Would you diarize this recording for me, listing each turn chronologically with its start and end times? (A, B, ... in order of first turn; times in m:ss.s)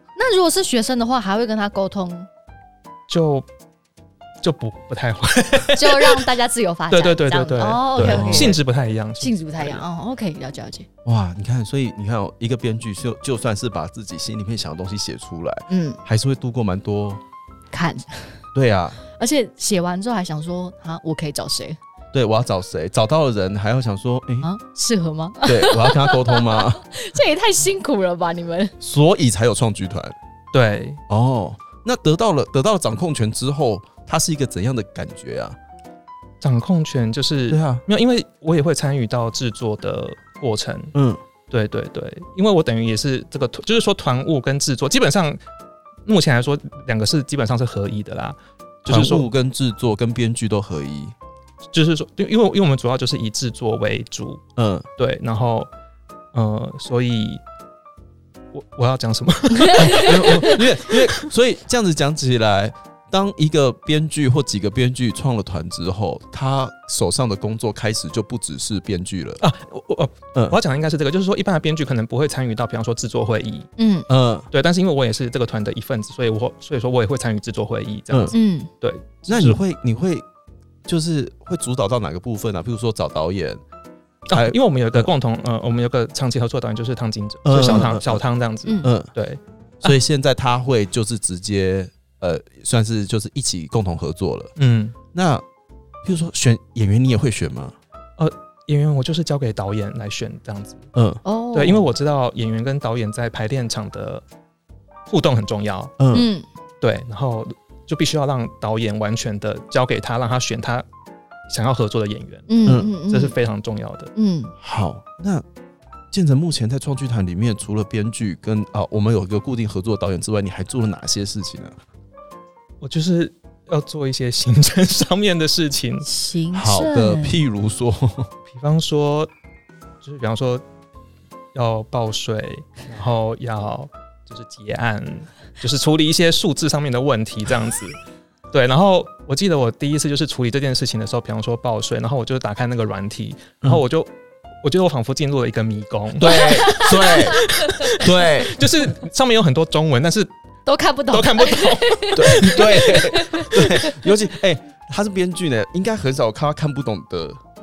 0:00.2-0:02.3 A
0:03.1-0:03.4 B
0:04.4-0:06.3 B
0:05.8-0:08.6 A
0:06.9-0:09.8 B
0:08.0-0:08.6 C
0:09.2-0:10.9 A
0:11.0-0:17.2 C
0:15.7-0:16.0 A
0:17.7-0:18.4 A
0:18.5-0:19.0 C
0:19.1-0:21.8 A
0:22.1-0:24.5 C
0:24.4-0:28.7 A
0:25.4-0:26.8 C
0:28.8-0:30.1 C
0:30.5-0:31.0 B
0:31.1-0:35.6 C
0:36.4-0:40.9 B
0:37.5-0:37.8 C
0:40.9-0:41.2 C
0:41.5-0:45.4 B
0:46.0-0:49.3 B
0:48.9-0:51.1 C
0:51.7-0:54.4 B
0:54.6-0:54.9 C
0:55.0-0:55.7 B
0:56.3-0:57.4 B
0:58.5-1:01.2 B
0:59.7-1:00.6 A
0:59.8-1:09.4 C
1:09.4-1:13.7 B
1:13.8-1:14.1 A
1:14.1-1:14.5 C
1:14.5-1:19.6 B
1:18.1-1:18.3 C
1:18.3-1:18.7 A
1:19.3-1:20.2 C
1:20.8-1:23.6 C
1:24.3-1:29.9 B
1:24.3-1:25.1 C
1:27.4-1:28.2 C
1:28.8-1:29.1 C
1:29.8-1:34.5 C
1:34.6-1:35.0 B
1:35.1-1:35.4 C
1:36.0-1:37.8 C
1:38.2-1:40.8 B
1:40.9-1:41.2 C
1:41.2-1:41.9 A
1:41.5-1:44.2 B
1:45.1-1:45.9 B
1:46.0-1:46.3 C
1:46.1-1:46.4 A
1:46.8-1:50.8 B
1:51.5-1:54.1 B
1:52.5-1:53.3 A
1:52.6-1:52.9 C
1:54.2-1:54.5 A
1:54.6-1:55.4 C
1:56.1-2:01.8 C
2:02.8-2:06.1 B
2:06.0-2:07.4 A
2:06.5-2:08.3 C
2:08.5-2:09.3 B
2:10.0-2:10.6 B
2:11.5-2:18.0 B
2:18.5-2:24.1 B
2:24.6-2:30.3 B
2:26.2-2:28.6 C
2:26.4-2:27.4 A
2:30.6-2:33.9 A
2:31.1-2:33.0 B
2:32.2-2:37.4 C